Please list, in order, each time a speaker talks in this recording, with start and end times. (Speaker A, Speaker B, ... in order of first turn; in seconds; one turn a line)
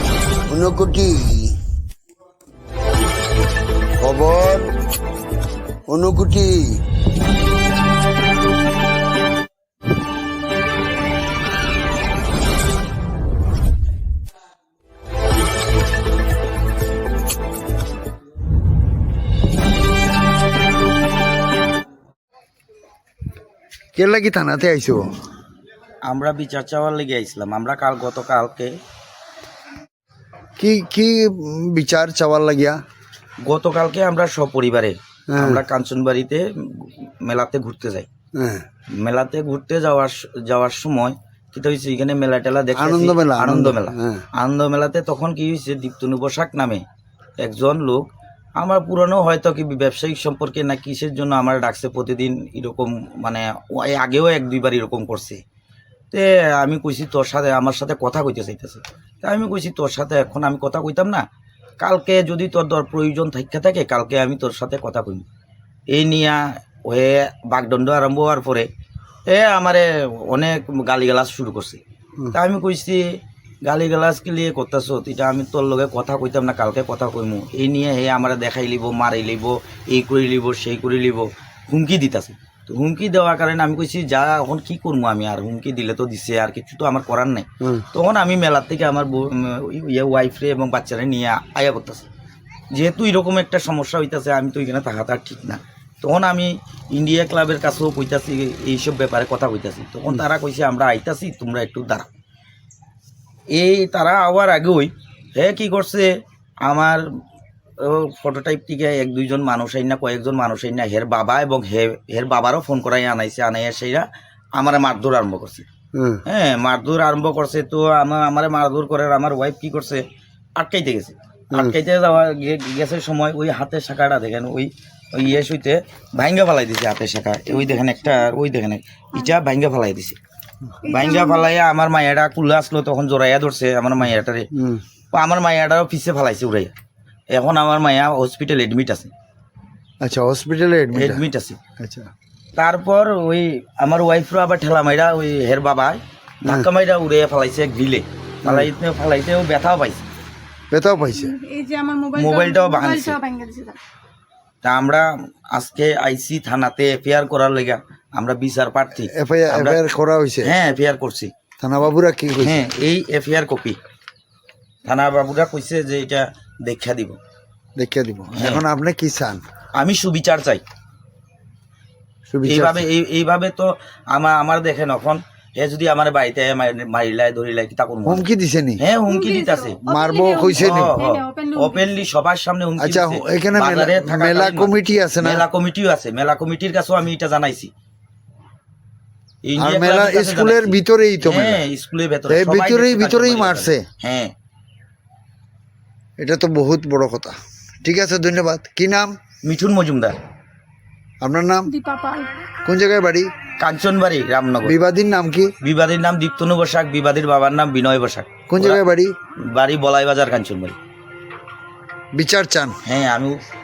Speaker A: 0.5-1.5
Speaker A: 4.0-4.7
Speaker A: 5.9-6.8
Speaker A: 23.9-25.1
Speaker B: 26.1-28.8
Speaker A: 30.6-32.8
Speaker B: 33.4-38.1
Speaker A: 35.3-35.6
Speaker A: 38.3-38.6
Speaker B: 39.0-46.8
Speaker A: 42.7-44.2
Speaker B: 47.4-55.4
Speaker B: 56.1-61.2
Speaker B: 61.8-65.2
Speaker B: 65.9-68.7
Speaker B: 69.2-92.1
Speaker B: 92.7-102.1
Speaker B: 103.5-106.1
Speaker B: 106.6-107.0
Speaker B: 107.8-114.0
Speaker B: 114.6-115.7
Speaker A: 115.9-116.2
Speaker B: 116.2-120.0
Speaker B: 120.6-130.2
Speaker C: 130.8-131.5
Speaker B: 130.8-134.4
Speaker A: 134.5-134.8
Speaker B: 135.1-136.7
Speaker B: 137.3-139.1
Speaker A: 140.0-141.2
Speaker B: 140.9-141.6
Speaker A: 141.8-142.1
Speaker B: 142.6-150.0
Speaker A: 148.4-148.7
Speaker A: 150.7-151.3
Speaker C: 151.1-153.8
Speaker B: 152.1-153.2
Speaker B: 154.6-159.8
Speaker A: 159.0-160.5
Speaker B: 160.4-161.3
Speaker A: 161.6-162.7
Speaker B: 162.4-163.8
Speaker B: 164.8-167.2
Speaker A: 167.8-169.4
Speaker B: 168.3-168.6
Speaker B: 169.8-170.6
Speaker A: 172.3-172.8
Speaker B: 172.4-178.2
Speaker A: 178.0-178.8
Speaker B: 178.8-179.8
Speaker C: 179.1-181.9
Speaker A: 179.8-181.0
Speaker B: 180.6-187.7
Speaker A: 182.8-185.4
Speaker B: 189.4-194.3
Speaker A: 189.6-191.6
Speaker A: 192.3-193.8
Speaker A: 196.2-199.2
Speaker B: 199.4-200.2
Speaker A: 201.2-201.7
Speaker C: 201.7-202.3
Speaker A: 202.6-203.3
Speaker B: 203.6-204.8
Speaker A: 204.6-205.5
Speaker B: 205.6-210.8
Speaker A: 208.5-209.1
Speaker A: 212.1-212.7
Speaker B: 212.8-213.4